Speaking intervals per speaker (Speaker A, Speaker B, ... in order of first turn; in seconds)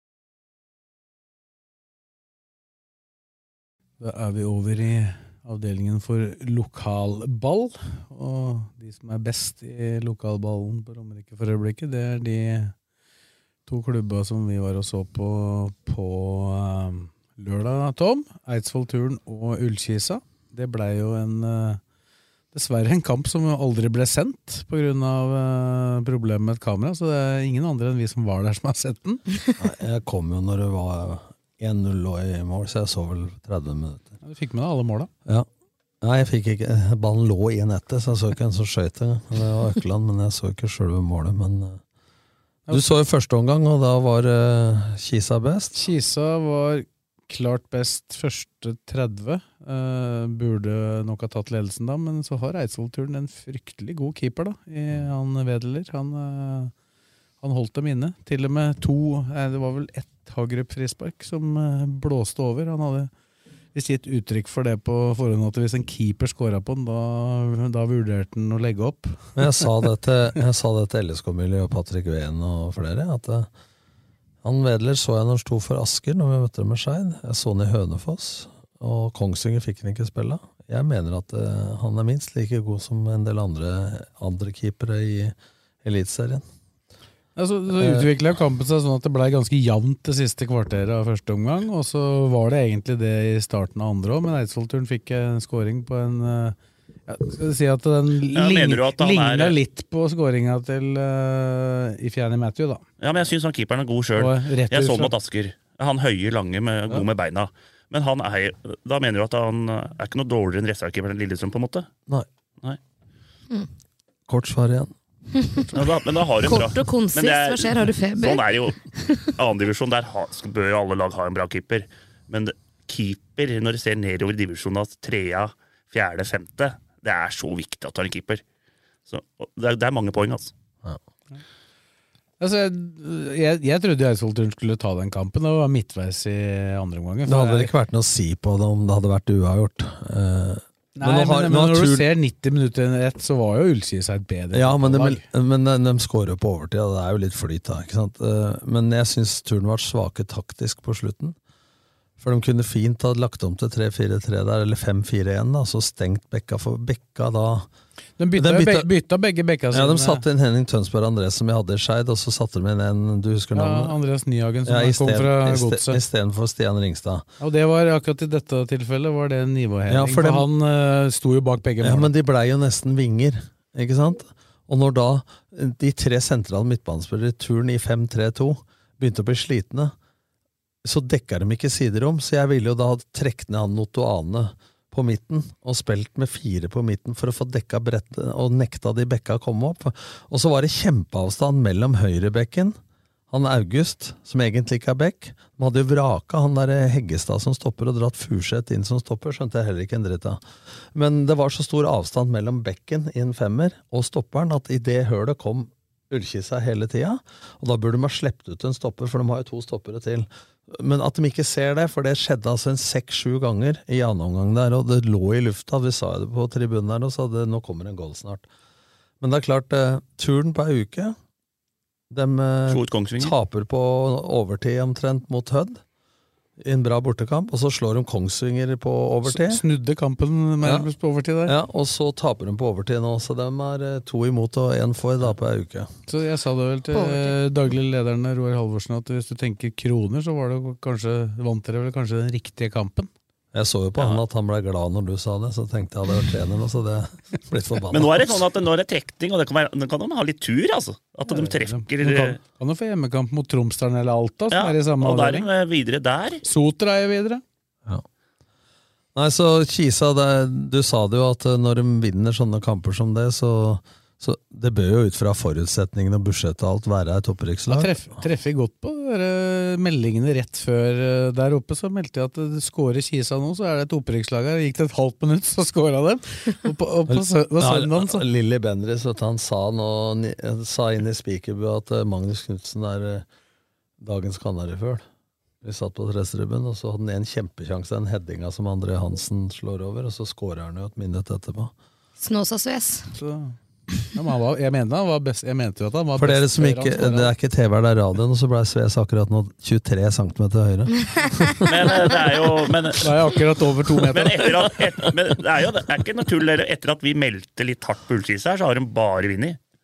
Speaker A: 4.0-12.7, 13.7-21.8, 22.5-29.2, 34.2-35.1, 42.7-42.9, 45.7-56.7, 57.4-63.1, 63.7-69.6, 87.3-96.5, 97.1-102.8, 104.2-105.1, 132.4-137.7, 140.9-145.2, 158.2-160.2, 163.5-166.0, 167.4-172.1, 229.2-231.5, 236.1-243.1, 251.3-255.5, 256.4-257.4, 267.7-278.2, 293.1-293.6, 294.1-297.3, 303.0-304.7
Speaker B: 29.6-34.1, 36.0-41.8, 42.7-45.8, 69.3-73.5, 74.4-86.4, 87.7-88.1, 114.3-114.9, 137.2-142.1, 144.5-151.3, 152.2-157.7, 158.3-158.9, 159.7-164.0, 164.7-167.3, 169.9-170.5, 171.8-179.9, 180.8-192.8, 193.3-200.4, 200.9-218.4, 219.2-221.2, 222.1-225.8, 226.6-229.6, 230.6-230.9, 231.4-235.9, 243.5-248.4, 259.1-268.2, 277.1-283.2, 284.0-285.0, 285.6-291.7, 296.1-302.0
Speaker C: 98.3-99.5, 103.0-111.9, 115.7-118.8, 119.4-128.4, 129.1-130.5, 222.7-223.3, 247.9-252.4, 254.5-256.4, 301.6-303.1, 304.1-309.6
Speaker D: 116.4-118.4, 118.9-119.2, 236.9-237.3, 292.2-293.1